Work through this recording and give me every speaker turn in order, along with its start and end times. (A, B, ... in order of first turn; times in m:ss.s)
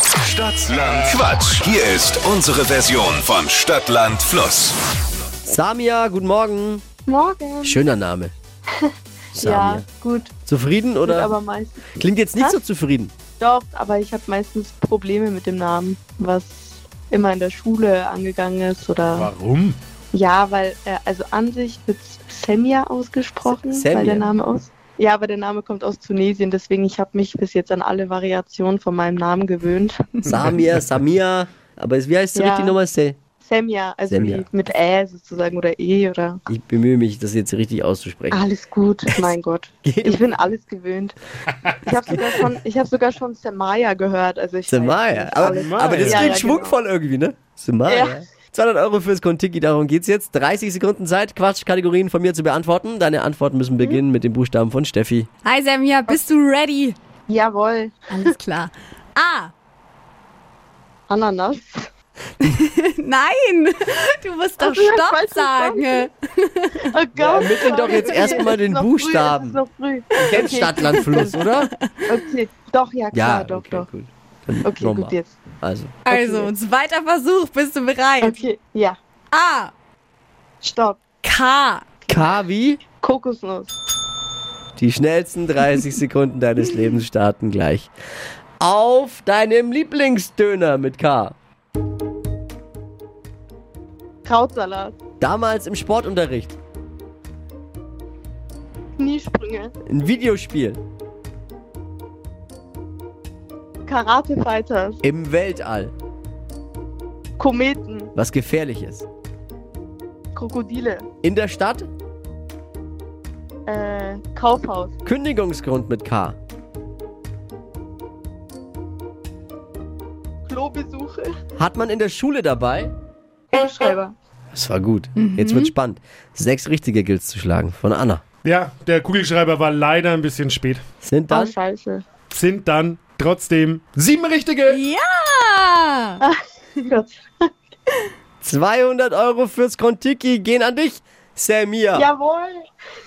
0:00.2-0:04.8 A
0:05.4-0:06.8 B
0:07.1-0:07.8 C
0:07.6-0:08.3 B
0:08.8-0:10.3 C
0:09.3-0:09.8 B
0:10.4-0:11.3 B
0:11.0-0:12.6 C
0:11.9-0:13.1 B
0:13.4-0:19.3 C
0:19.1-0:19.8 D
0:20.1-0:30.2 C
0:23.4-0:24.2 B
0:30.2-0:33.2 B
0:32.3-0:32.8 C
0:33.4-0:36.4 C
0:34.1-0:34.4 B
0:36.5-0:38.4 B
0:38.3-0:41.2 C
0:39.8-0:40.3 B
0:41.8-0:46.8 C
0:44.7-0:55.3 B
0:45.3-0:46.4 D
0:47.9-0:48.2 C
0:55.4-0:57.0 E
0:57.3-0:58.3 C
0:58.1-0:59.5 E
1:01.1-1:01.9 C
1:02.4-1:06.8 E
1:04.6-1:06.1 C
1:06.8-1:11.2 C
1:07.2-1:09.6 B
1:07.7-1:08.5 E
1:10.2-1:11.7 B
1:10.3-1:11.3 E
1:12.1-1:13.9 C
1:13.1-1:16.0 B
1:14.6-1:15.4 C
1:16.0-1:18.4 E
1:16.1-1:16.5 C
1:18.2-1:19.0 C
1:19.3-1:19.7 E
1:20.6-1:21.0 C
1:21.2-1:21.9 E
1:22.1-1:22.8 B
1:23.0-1:23.7 C
1:24.8-1:27.9 B
1:28.6-1:31.3 B
1:34.2-1:34.9 C
1:35.2-1:36.6 B
1:39.0-1:39.7 C
1:39.9-1:40.8 B
1:43.8-1:45.0 C
1:45.0-1:45.9 B
1:47.4-1:48.1 C
1:48.1-1:49.0 B
1:50.3-1:51.0 C
1:51.2-1:51.9 B
1:53.6-1:55.0 C
1:55.0-1:56.4 B
2:00.5-2:01.3 C
2:01.6-2:02.9 B
2:03.5-2:04.1 C
2:04.5-2:08.2 B
2:05.2-2:05.7 E
2:08.4-2:10.8 D
2:11.0-2:11.5 B
2:11.3-2:12.0 C
2:12.3-2:14.8 D
2:14.7-2:16.2 E
2:16.2-2:17.5 C
2:18.4-2:22.1 B
2:21.9-2:22.6 C